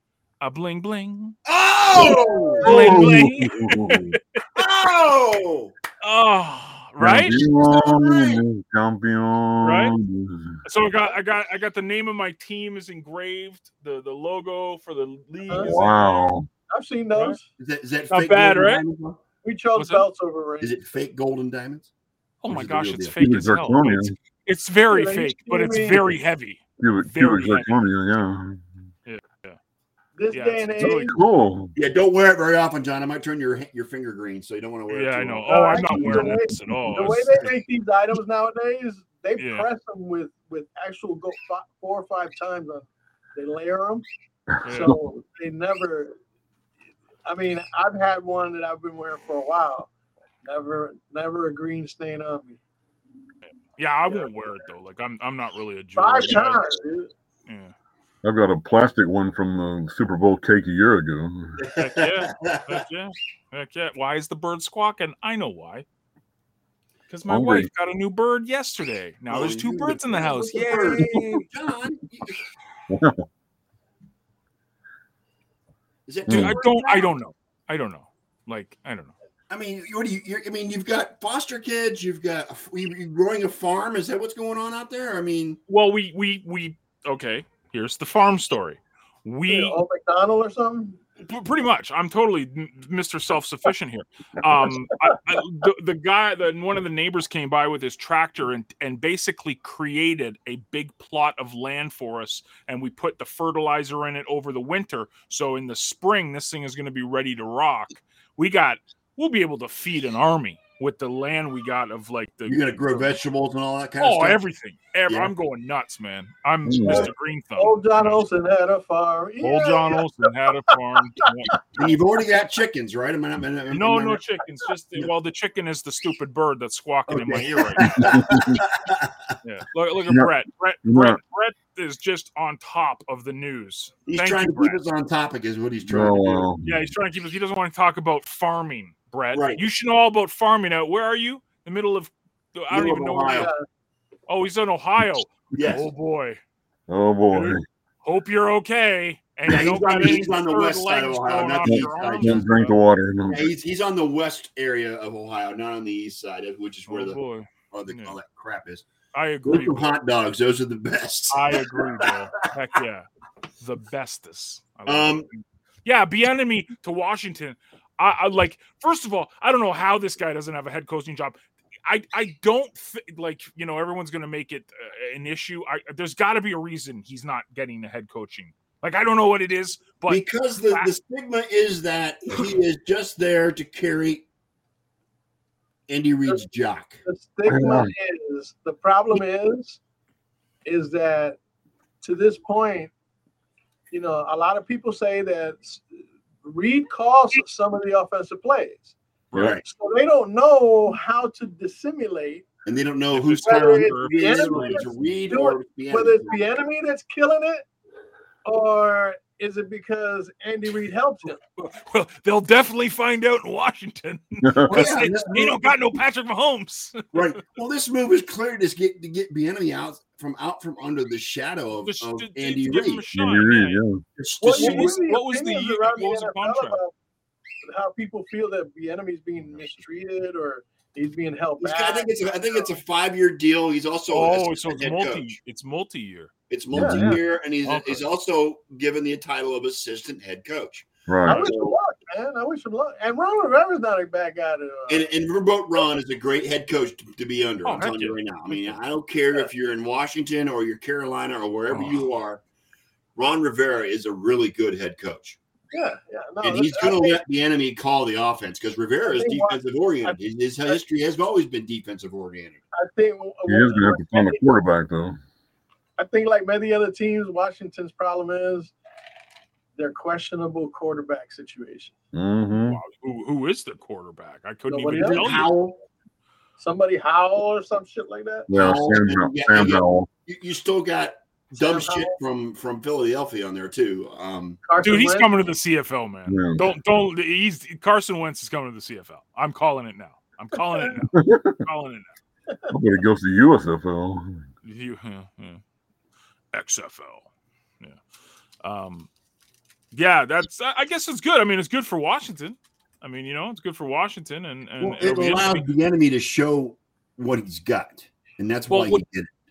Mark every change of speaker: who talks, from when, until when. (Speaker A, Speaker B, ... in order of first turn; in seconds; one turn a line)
Speaker A: 0.4-1.4
Speaker B: 1.4-2.9
Speaker C: 1.9-2.9
Speaker A: 2.6-4.4
Speaker D: 2.6-4.2
Speaker B: 4.5-5.7
Speaker A: 6.0-7.4
Speaker D: 7.0-10.6
Speaker B: 7.3-8.4
Speaker A: 9.6-9.9
Speaker A: 10.6-16.3
Speaker C: 15.5-15.7
Speaker D: 15.6-16.5
Speaker C: 16.7-17.4
Speaker B: 17.6-19.2
Speaker A: 18.1-18.8
Speaker C: 19.4-20.7
Speaker A: 19.8-20.1
Speaker B: 20.6-21.9
Speaker A: 22.4-27.8
Speaker B: 22.5-23.1
Speaker D: 23.2-24.1
Speaker C: 24.9-26.1
Speaker D: 26.8-28.6
Speaker A: 29.1-29.6
Speaker C: 30.1-31.1
Speaker A: 30.3-31.1
Speaker D: 30.8-31.7
Speaker B: 31.8-36.4
Speaker A: 34.9-37.4
Speaker C: 35.5-44.0
Speaker A: 39.4-39.6
Speaker A: 44.6-45.0
Speaker C: 44.6-46.1
Speaker C: 47.2-49.9
Speaker C: 50.4-52.6
Speaker A: 53.8-56.7
Speaker C: 56.0-57.1
Speaker A: 57.5-57.7
Speaker D: 58.2-61.6
Speaker B: 61.6-62.8
Speaker A: 61.7-65.8
Speaker A: 67.1-71.5
Speaker D: 67.3-67.7
Speaker B: 69.3-72.5
Speaker D: 72.9-73.2
Speaker B: 76.1-77.1
Speaker D: 76.3-76.6
Speaker A: 76.3-79.1
Speaker B: 79.5-85.6
Speaker A: 85.7-89.8
Speaker C: 89.5-91.0
Speaker A: 91.2-113.1
Speaker B: 112.5-114.4
Speaker A: 114.0-118.2
Speaker D: 116.6-117.1
Speaker B: 116.8-117.1
Speaker C: 117.6-120.0
Speaker A: 119.4-121.6
Speaker B: 121.7-124.2
Speaker A: 123.7-128.2
Speaker B: 127.1-129.3
Speaker D: 127.8-128.6
Speaker A: 129.4-134.8
Speaker D: 130.8-131.2
Speaker B: 134.1-136.5
Speaker D: 135.8-136.7
Speaker A: 136.6-143.5
Speaker B: 139.3-139.6
Speaker B: 142.7-143.5
Speaker C: 143.3-143.6
Speaker A: 144.3-146.4
Speaker B: 145.5-145.9
Speaker D: 146.9-147.6
Speaker A: 147.3-152.8
Speaker B: 149.5-152.5
Speaker D: 151.6-153.5
Speaker B: 153.3-157.2
Speaker A: 156.9-158.2
Speaker B: 157.7-158.8
Speaker A: 159.1-160.0
Speaker B: 159.4-162.1
Speaker A: 161.3-163.1
Speaker A: 163.6-180.9
Speaker B: 164.8-165.3
Speaker B: 180.1-184.2
Speaker B: 185.9-187.0
Speaker C: 187.0-189.8
Speaker D: 187.4-187.9
Speaker C: 190.6-191.4
Speaker C: 192.0-192.9
Speaker C: 193.9-195.8
Speaker C: 196.4-198.9
Speaker A: 199.3-199.6
Speaker B: 199.3-199.6
Speaker C: 199.6-202.4
Speaker B: 202.7-206.4
Speaker A: 203.1-204.8
Speaker C: 203.4-207.7
Speaker C: 208.4-211.4
Speaker A: 211.6-217.3
Speaker D: 214.4-214.9
Speaker B: 214.7-215.7
Speaker B: 217.1-223.0
Speaker A: 221.8-226.8
Speaker D: 223.1-224.0
Speaker B: 224.2-225.0
Speaker C: 224.4-226.9
Speaker C: 227.6-232.7
Speaker B: 231.6-235.3
Speaker A: 234.1-236.3
Speaker B: 236.5-241.8
Speaker D: 236.7-237.1
Speaker C: 236.7-237.2
Speaker A: 237.6-238.0
Speaker D: 241.1-241.4
Speaker C: 241.2-245.1
Speaker B: 244.9-252.4
Speaker A: 247.6-248.8
Speaker A: 251.7-252.0
Speaker B: 253.2-255.4
Speaker C: 255.7-257.2
Speaker B: 256.4-262.6
Speaker C: 259.0-260.8
Speaker C: 262.7-264.4
Speaker D: 263.5-265.2
Speaker C: 266.0-268.7
Speaker C: 269.8-271.9
Speaker D: 272.1-272.8
Speaker A: 272.7-275.5
Speaker C: 274.7-275.4
Speaker B: 274.9-275.8
Speaker C: 276.6-278.5
Speaker D: 278.5-280.1
Speaker B: 278.5-284.6
Speaker C: 281.5-282.1
Speaker C: 284.6-285.3
Speaker A: 284.8-292.1
Speaker D: 286.3-286.6
Speaker D: 291.1-291.6
Speaker D: 292.7-294.4
Speaker A: 294.6-295.6
Speaker A: 296.5-297.2
Speaker A: 298.6-299.1
Speaker A: 299.9-305.7
Speaker B: 304.8-309.3
Speaker A: 308.7-309.0